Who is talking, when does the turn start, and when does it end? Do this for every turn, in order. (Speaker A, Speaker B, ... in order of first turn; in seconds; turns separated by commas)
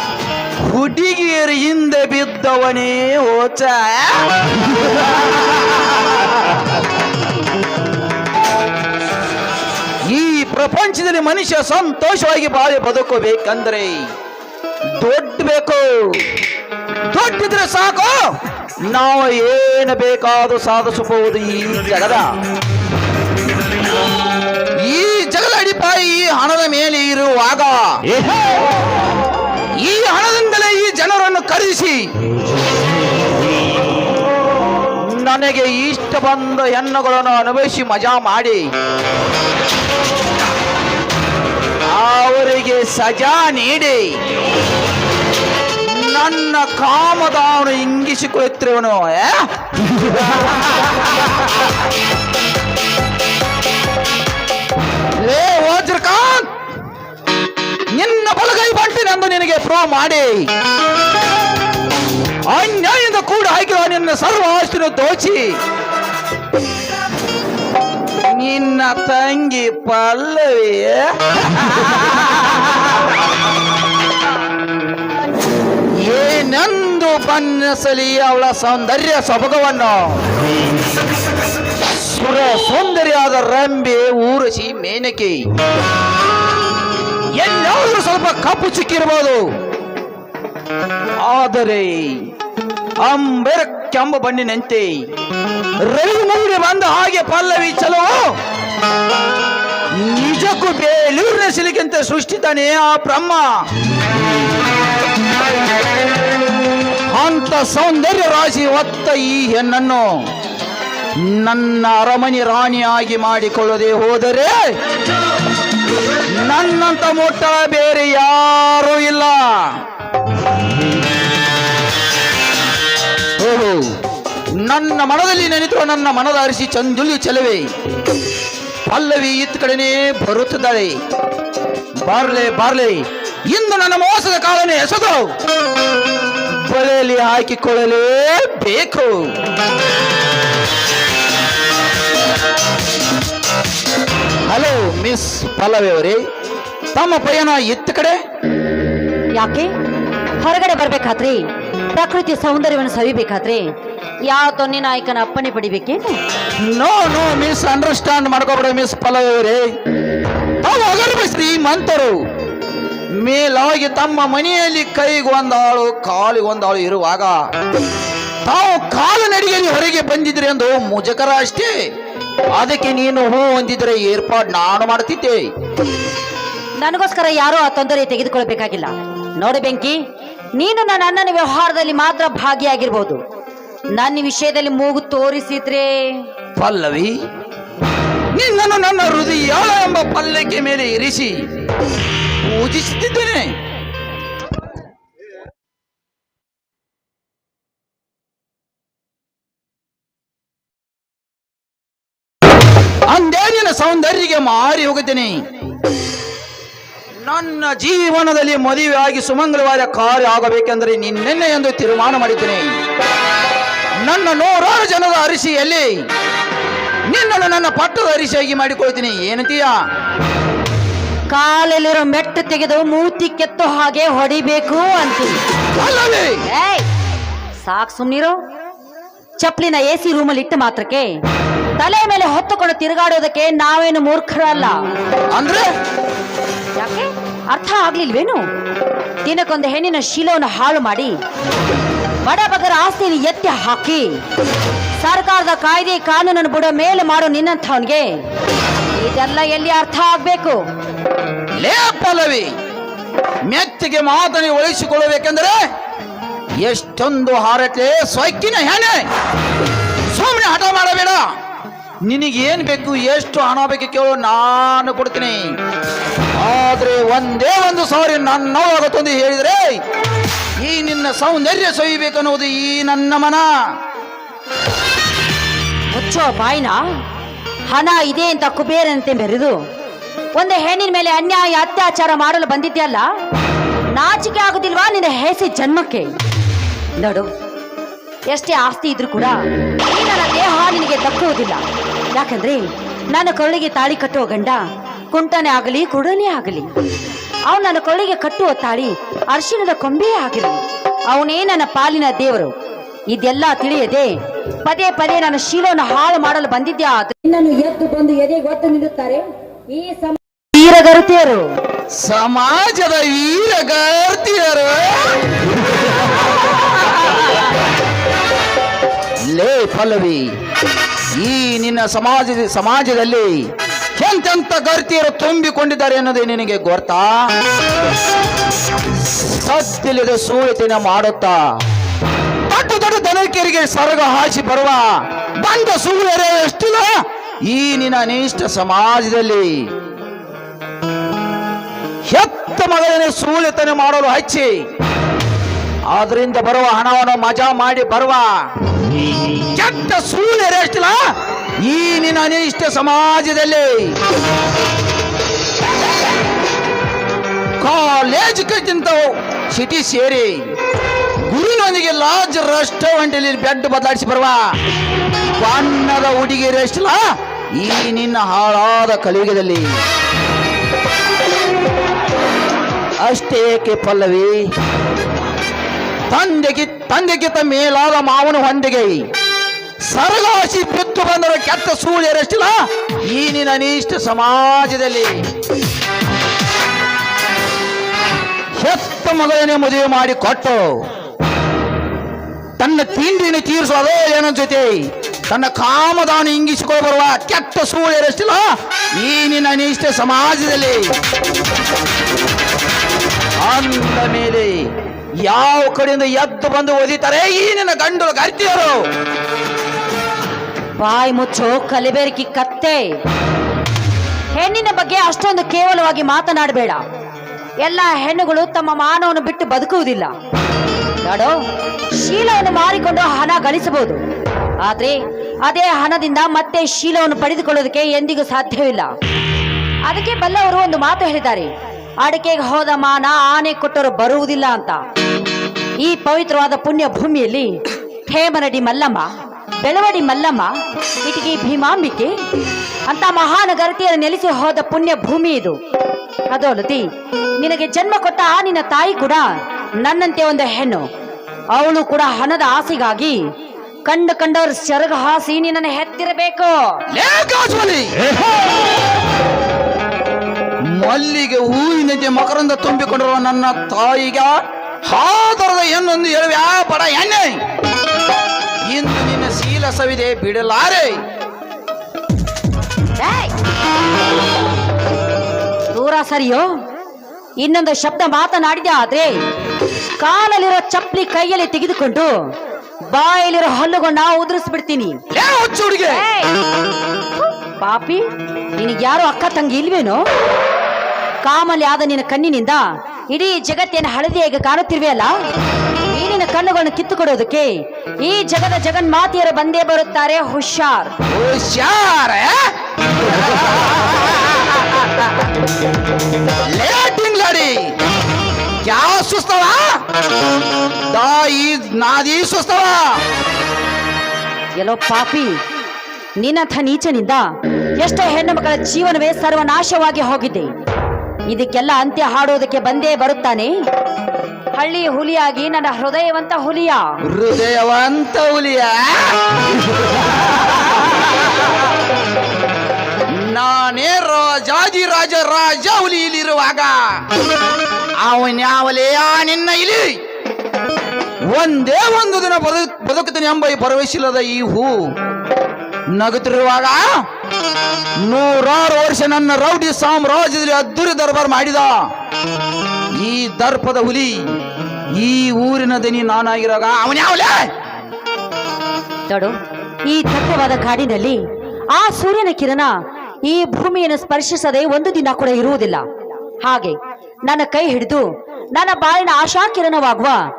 Speaker A: 0.6-6.6, Speaker A: 10.1-14.1, Speaker A: 15.0-16.3, Speaker A: 17.1-22.2, Speaker A: 24.8-28.0, Speaker A: 29.8-32.0, Speaker A: 35.0-38.7, Speaker A: 41.9-44.1, Speaker A: 45.8-51.2, Speaker A: 55.2-56.5, Speaker A: 57.9-60.5, Speaker A: 62.5-65.5, Speaker A: 68.3-72.8, Speaker A: 76.0-80.2, Speaker A: 81.9-85.4, Speaker A: 87.4-89.5, Speaker A: 91.2-92.3, Speaker A: 93.0-95.1, Speaker A: 95.8-98.1, Speaker A: 100.0-103.5, Speaker A: 107.1-110.3, Speaker A: 111.2-114.8, Speaker A: 116.3-119.8, Speaker A: 123.4-123.9, Speaker A: 124.5-127.7, Speaker A: 128.9-130.9, Speaker A: 132.0-135.3, Speaker A: 136.6-139.2, Speaker A: 144.5-146.2, Speaker A: 146.9-148.2, Speaker B: 149.3-149.7, Speaker B: 150.4-153.6, Speaker B: 154.3-156.2, Speaker A: 156.6-159.7, Speaker A: 160.6-162.2, Speaker A: 163.2-167.3, Speaker A: 168.4-171.7, Speaker A: 172.6-175.5, Speaker B: 176.8-180.0, Speaker B: 180.6-183.2, Speaker B: 183.9-186.2, Speaker A: 186.6-187.2, Speaker A: 188.3-191.5, Speaker A: 192.4-193.5, Speaker A: 203.1-205.4, Speaker A: 207.2-212.7, Speaker A: 214.0-216.0, Speaker A: 217.1-219.7, Speaker B: 221.3-225.4, Speaker A: 225.8-226.4, Speaker B: 226.5-226.9, Speaker B: 227.6-228.3, Speaker B: 229.4-231.1, Speaker B: 231.8-234.8, Speaker A: 235.3-235.7, Speaker B: 236.8-238.4, Speaker B: 239.2-241.2, Speaker B: 242.2-244.2, Speaker B: 245.0-248.1, Speaker B: 249.0-250.6, Speaker A: 251.6-252.5, Speaker A: 253.5-255.5, Speaker A: 256.6-259.0, Speaker A: 260.1-261.2, Speaker A: 262.1-265.5, Speaker A: 266.4-269.8, Speaker A: 270.6-273.4, Speaker B: 275.9-276.8, Speaker B: 277.7-279.6, Speaker B: 280.4-283.1, Speaker B: 283.9-286.1, Speaker B: 287.0-287.3, Speaker B: 288.3-291.6, Speaker B: 292.1-294.6, Speaker B: 295.1-296.7, Speaker B: 297.5-302.5, Speaker B: 303.1-311.5, Speaker A: 312.0-317.0, Speaker A: 319.3-320.2, Speaker A: 321.2-327.3, Speaker A: 329.0-331.4, Speaker A: 332.5-336.9, Speaker A: 337.5-339.6, Speaker A: 342.1-344.6, Speaker A: 345.9-348.3, Speaker A: 349.5-350.9, Speaker A: 351.6-354.0, Speaker A: 357.6-360.4, Speaker A: 361.3-364.4, Speaker A: 365.3-367.0, Speaker A: 367.6-369.8, Speaker A: 373.0-374.4, Speaker A: 376.1-379.0, Speaker A: 379.9-385.2, Speaker A: 388.6-390.8, Speaker A: 392.6-400.9, Speaker A: 403.4-404.7, Speaker A: 405.2-408.8, Speaker B: 410.8-412.8, Speaker B: 414.3-416.8, Speaker B: 417.6-420.1, Speaker B: 421.0-421.4, Speaker B: 422.0-424.0, Speaker B: 424.6-428.9, Speaker B: 429.9-431.5, Speaker B: 432.0-434.8, Speaker B: 435.8-442.1, Speaker B: 442.9-445.6, Speaker B: 446.3-446.9, Speaker B: 447.4-449.3, Speaker B: 449.8-450.9, Speaker B: 451.5-453.2, Speaker B: 453.9-456.8, Speaker A: 456.9-458.4, Speaker A: 460.7-467.4, Speaker A: 468.7-471.0, Speaker B: 473.0-473.3, Speaker B: 475.7-476.5, Speaker B: 477.4-479.2, Speaker B: 480.0-482.1, Speaker B: 482.9-485.0, Speaker A: 485.1-486.0, Speaker B: 485.9-486.3, Speaker B: 487.2-488.0, Speaker B: 488.6-490.0, Speaker B: 491.2-495.1, Speaker B: 495.9-500.9, Speaker A: 501.1-504.9, Speaker A: 506.5-507.6, Speaker A: 508.6-509.8, Speaker A: 510.9-513.0, Speaker B: 514.6-515.4, Speaker B: 516.2-517.2, Speaker B: 517.8-520.5, Speaker B: 521.3-523.5, Speaker B: 524.6-526.9, Speaker A: 527.1-531.1, Speaker A: 533.1-537.0, Speaker A: 538.0-540.0, Speaker A: 541.3-544.8, Speaker A: 546.0-546.9, Speaker A: 548.0-551.7, Speaker A: 553.0-554.3, Speaker A: 554.9-557.5, Speaker B: 559.1-559.3, Speaker B: 559.9-561.2, Speaker B: 561.7-562.7, Speaker B: 563.2-565.8, Speaker B: 566.4-570.2